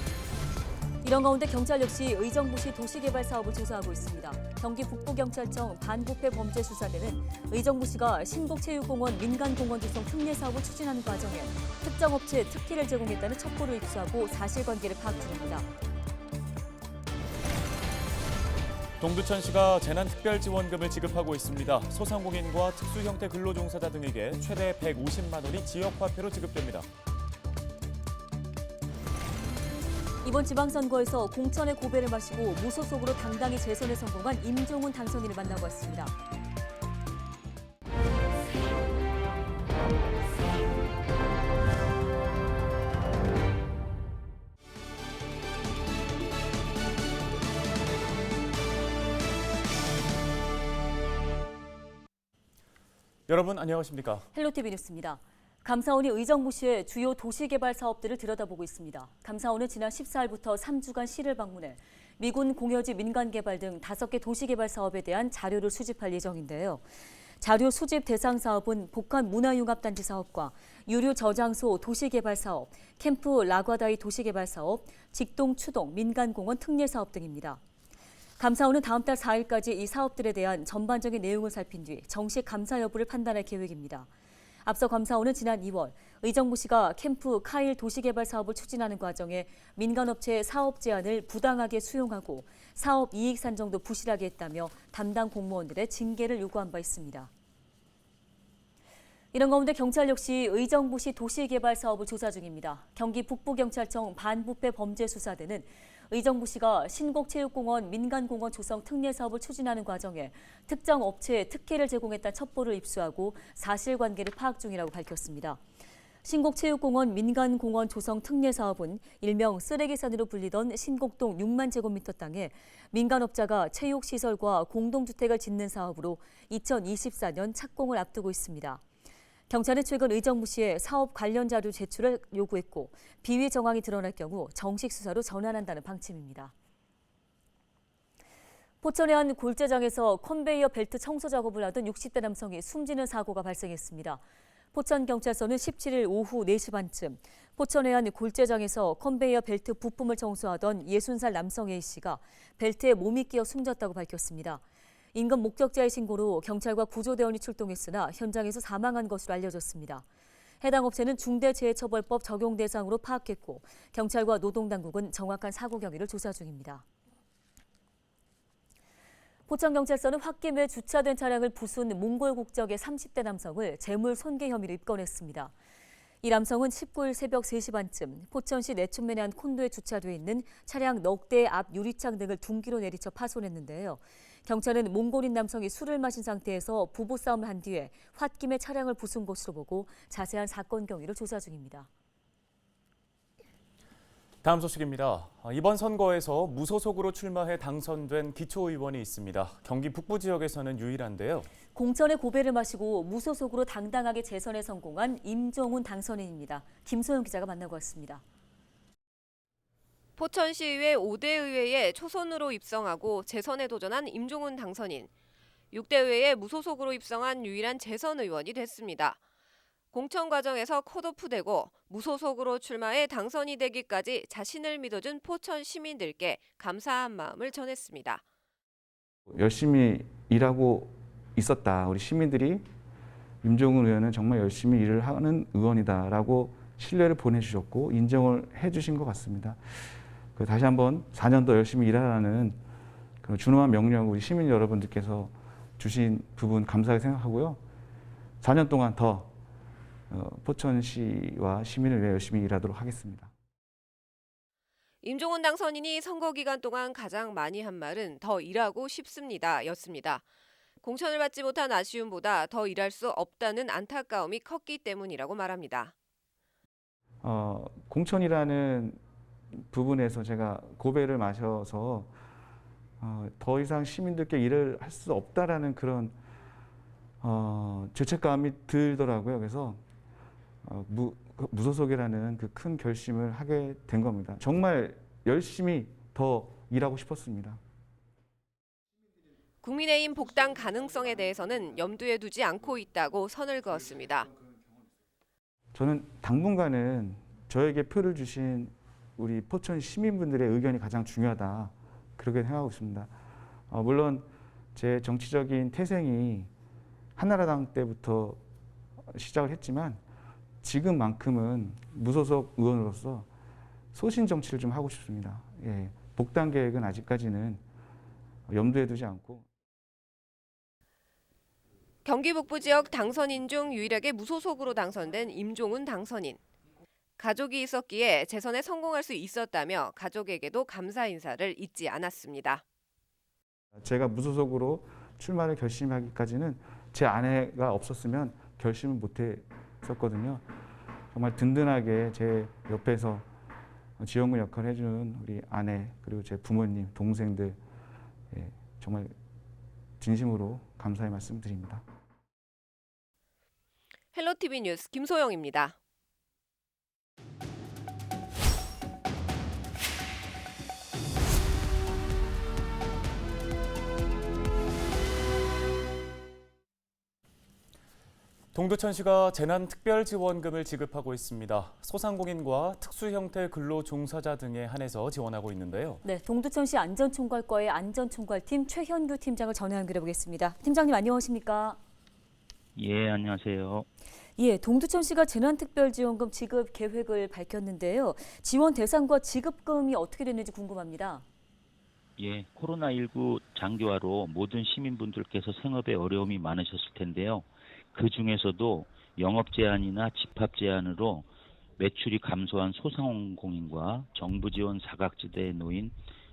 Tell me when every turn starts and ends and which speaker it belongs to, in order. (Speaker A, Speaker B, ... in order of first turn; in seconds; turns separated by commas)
Speaker A: 1.0-15.7, Speaker B: 19.0-26.9, Speaker A: 30.2-36.1, Speaker B: 53.3-54.2, Speaker A: 54.3-66.8, Speaker A: 67.4-77.6, Speaker A: 78.4-84.1, Speaker A: 84.6-97.3, Speaker A: 99.3-115.6, Speaker A: 116.2-128.8, Speaker A: 129.5-136.5, Speaker A: 138.8-144.2, Speaker A: 144.7-154.6, Speaker A: 155.1-160.0, Speaker A: 160.6-166.8, Speaker A: 169.5-175.5, Speaker A: 176.2-191.9, Speaker B: 194.4-201.5, Speaker A: 201.7-208.2, Speaker C: 210.2-215.1, Speaker C: 215.7-219.2, Speaker C: 219.9-228.2, Speaker D: 229.3-232.7, Speaker D: 233.4-239.6, Speaker D: 240.3-242.6, Speaker D: 243.2-247.6, Speaker D: 248.4-249.3, Speaker D: 250.1-253.3, Speaker C: 255.0-260.2, Speaker C: 260.8-265.9, Speaker D: 267.2-269.0, Speaker D: 269.7-272.1, Speaker D: 273.0-276.1, Speaker D: 277.2-279.8, Speaker D: 280.6-287.6, Speaker C: 289.6-294.3, Speaker D: 295.7-303.1, Speaker D: 303.7-306.5, Speaker D: 307.1-308.4, Speaker D: 309.1-310.0, Speaker D: 310.6-313.3, Speaker D: 313.9-317.6, Speaker D: 318.5-319.5, Speaker C: 322.0-326.4, Speaker C: 327.2-332.6, Speaker D: 333.8-340.4, Speaker D: 341.1-343.3, Speaker D: 344.0-347.6, Speaker D: 348.3-349.1, Speaker D: 350.0-351.8, Speaker C: 354.1-355.7, Speaker B: 368.5-376.0, Speaker A: 376.0-381.8, Speaker E: 382.7-383.9, Speaker A: 384.4-391.2, Speaker E: 392.2-401.3, Speaker E: 401.8-405.9